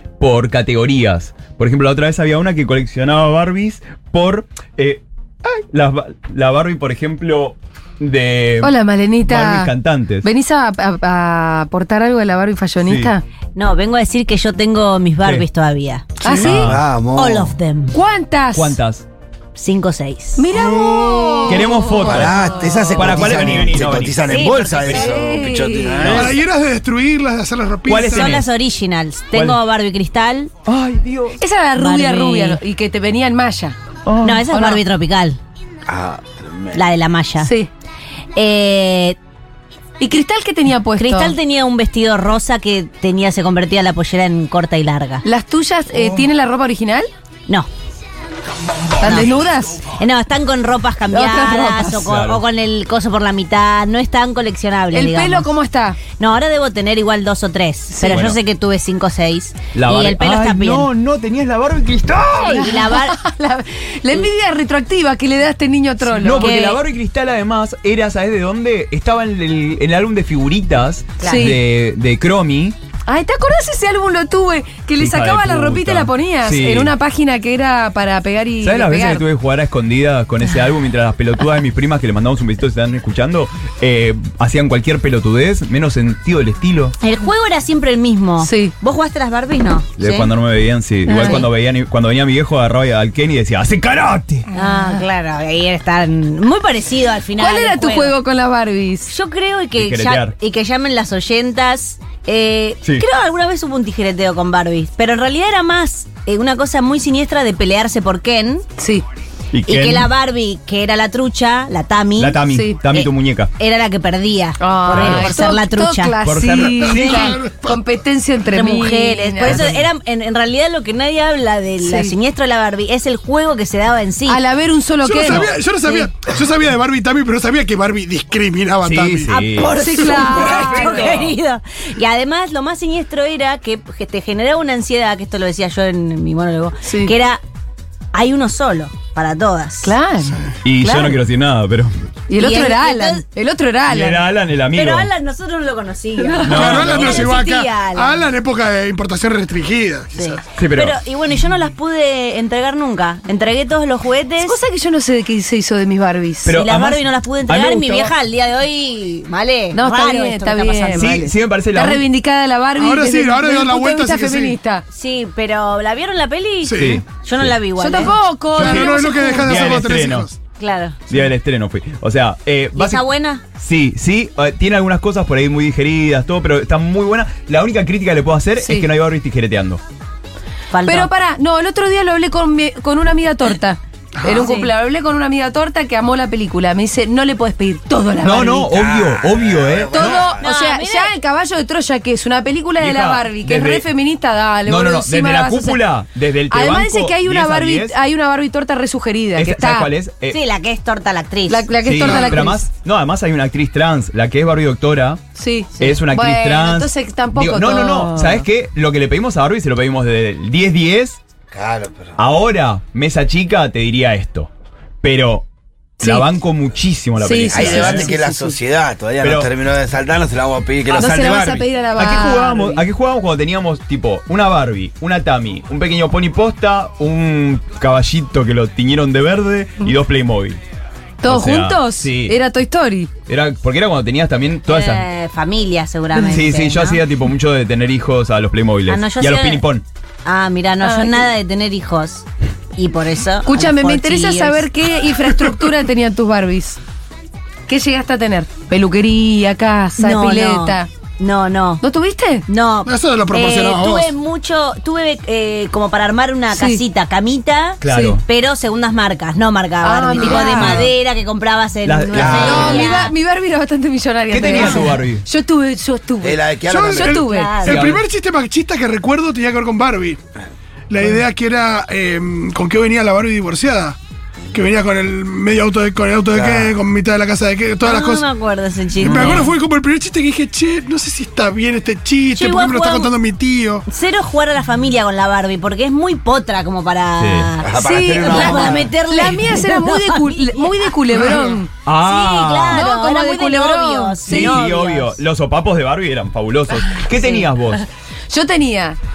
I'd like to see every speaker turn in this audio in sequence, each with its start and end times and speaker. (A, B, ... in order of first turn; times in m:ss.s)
0:00.2-0:08.7 A
0:08.6-0:09.7 B
0:09.3-0:10.3 A
0:10.2-0:13.2 B
0:12.8-0:13.1 A
0:13.6-0:16.1 C
0:15.2-0:15.5 A
0:16.2-0:16.7 B
0:16.2-0:16.5 D
0:16.3-0:16.9 A
0:16.5-0:17.5 E
0:17.2-0:18.0 C
0:17.9-0:18.8 B
0:18.5-0:19.1 A
0:19.6-0:20.5 C
0:20.4-0:23.1 B
0:20.5-0:21.7 D
0:21.5-0:22.4 A
0:22.0-0:26.4 E
0:22.9-0:25.0 A
0:24.3-0:25.2 C
0:24.9-0:26.2 B
0:25.9-0:26.4 A
0:26.1-0:28.4 D
0:27.9-0:28.5 A
0:28.1-0:30.5 C
0:29.3-0:29.6 A
0:30.6-0:31.4 A
0:31.4-0:33.8 B
0:31.8-0:32.6 C
0:34.1-0:34.4 A
0:34.2-0:35.4 C
0:34.5-0:34.8 B
0:35.9-0:36.8 E
0:36.7-0:37.5 C
0:37.4-0:37.7 B
0:38.4-0:39.2 C
0:40.0-0:41.3 B
0:41.0-0:45.2 C
0:45.2-0:47.1 B
0:49.0-0:49.8 B
0:49.9-0:55.5 C
0:51.1-0:52.0 B
0:52.0-0:52.4 A
0:54.9-0:56.0 B
0:56.1-1:00.9 C
0:57.9-0:58.2 B
0:58.1-0:58.4 A
0:59.7-1:02.8 A
1:02.4-1:06.8 B
1:02.5-1:03.2 C
1:06.2-1:12.8 A
1:06.4-1:06.8 C
1:11.2-1:11.6 C
1:11.2-1:11.6 B
1:13.1-1:19.2 B
1:15.0-1:16.9 A
1:18.6-1:27.0 A
1:27.0-1:30.3 C
1:28.4-1:28.8 B
1:30.0-1:34.5 A
1:31.1-1:31.4 B
1:31.2-1:31.5 C
1:34.5-1:35.0 B
1:34.5-1:38.1 C
1:37.4-1:39.1 B
1:39.1-1:48.7 C
1:39.8-1:40.3 A
1:48.8-1:49.0 B
1:49.5-1:50.1 A
1:49.7-1:52.4 C
1:52.2-1:53.5 A
1:52.5-1:52.8 B
1:52.9-1:56.2 C
1:54.6-1:59.7 B
1:54.9-1:55.4 A
1:56.2-1:57.4 A
1:56.8-1:57.8 D
1:58.5-2:04.4 C
1:59.4-1:59.8 A
2:01.8-2:02.1 B
2:04.3-2:06.1 B
2:05.0-2:09.3 D
2:05.2-2:05.5 A
2:08.8-2:09.8 A
2:09.3-2:17.4 C
2:09.8-2:11.1 B
2:10.2-2:10.8 D
2:10.9-2:11.3 A
2:16.8-2:17.1 B
2:18.1-2:20.0 C
2:19.8-2:21.2 B
2:20.6-2:21.9 A
2:22.3-2:24.2 B
2:22.4-2:23.2 C
2:23.9-2:25.1 A
2:24.7-2:28.2 C
2:26.2-2:27.4 B
2:26.4-2:27.4 A
2:26.5-2:30.4 D
2:30.2-2:34.6 C
2:30.6-2:31.0 A
2:34.4-2:36.6 B
2:36.4-2:38.1 A
2:36.5-2:41.2 C
2:39.7-2:44.8 B
2:41.0-2:42.0 A
2:42.8-2:44.6 D
2:44.9-2:48.2 C
2:46.6-2:47.0 D
2:46.8-2:47.6 A
2:47.8-2:49.8 B
2:48.6-2:50.3 A
2:48.6-2:50.4 D
2:50.6-2:51.0 C
2:51.1-2:59.8 A
2:52.8-2:53.4 C
2:58.6-2:58.9 B
3:00.7-3:01.1 C
3:00.9-3:08.7 B
3:04.2-3:04.6 D
3:04.4-3:04.7 C
3:08.2-3:10.4 A
3:08.7-3:10.5 E
3:09.9-3:15.8 B
3:10.4-3:11.1 C
3:12.8-3:13.9 A
3:14.7-3:18.0 A
3:16.5-3:19.9 B
3:19.4-3:20.4 A
3:20.3-3:21.7 C
3:21.5-3:22.6 B
3:21.8-3:25.2 A
3:25.4-3:28.4 B
3:25.8-3:31.2 A
3:31.5-3:32.2 E
3:32.2-3:34.5 A
3:35.0-3:35.5 A
3:36.0-3:38.2 A
3:36.0-3:36.3 B
3:37.2-3:38.6 B
3:37.5-3:41.7 E
3:39.2-3:39.5 A
3:40.9-3:42.8 B
3:42.0-3:50.6 A
3:51.2-3:53.1 B
3:51.2-3:52.4 A
3:53.3-3:55.0 A
3:54.7-3:57.0 C
3:56.2-3:56.4 B
3:56.3-3:59.8 A
3:58.9-3:59.6 C
4:00.2-4:04.7 C
4:00.8-4:01.2 B
4:03.5-4:06.8 B
4:07.7-4:10.9 B
4:10.0-4:11.8 C
4:11.8-4:12.5 B
4:12.5-4:23.2 C
4:12.8-4:14.1 D
4:16.5-4:16.8 B
4:17.8-4:18.2 A
4:19.8-4:20.9 B
4:20.2-4:20.7 D
4:21.9-4:22.8 A
4:22.1-4:22.8 E
4:22.2-4:27.5 B
4:24.3-4:25.3 A
4:26.2-4:27.2 E
4:26.7-4:30.2 D
4:27.2-4:27.9 C
4:27.6-4:28.0 A
4:30.9-4:34.0 D
4:34.5-4:38.3 D
4:36.3-4:36.7 E
4:37.8-4:39.5 C
4:39.0-4:39.5 A
4:39.0-4:43.9 D
4:42.3-4:43.1 C
4:43.9-4:51.4 C
4:47.2-4:47.6 A
4:47.6-4:48.9 E
4:47.7-4:51.7 B
4:51.1-4:51.4 D
4:51.8-4:52.9 A
4:52.0-4:55.2 C
4:52.7-4:54.6 B
4:54.3-4:57.8 A
4:57.2-4:57.4 C
4:58.3-4:59.0 B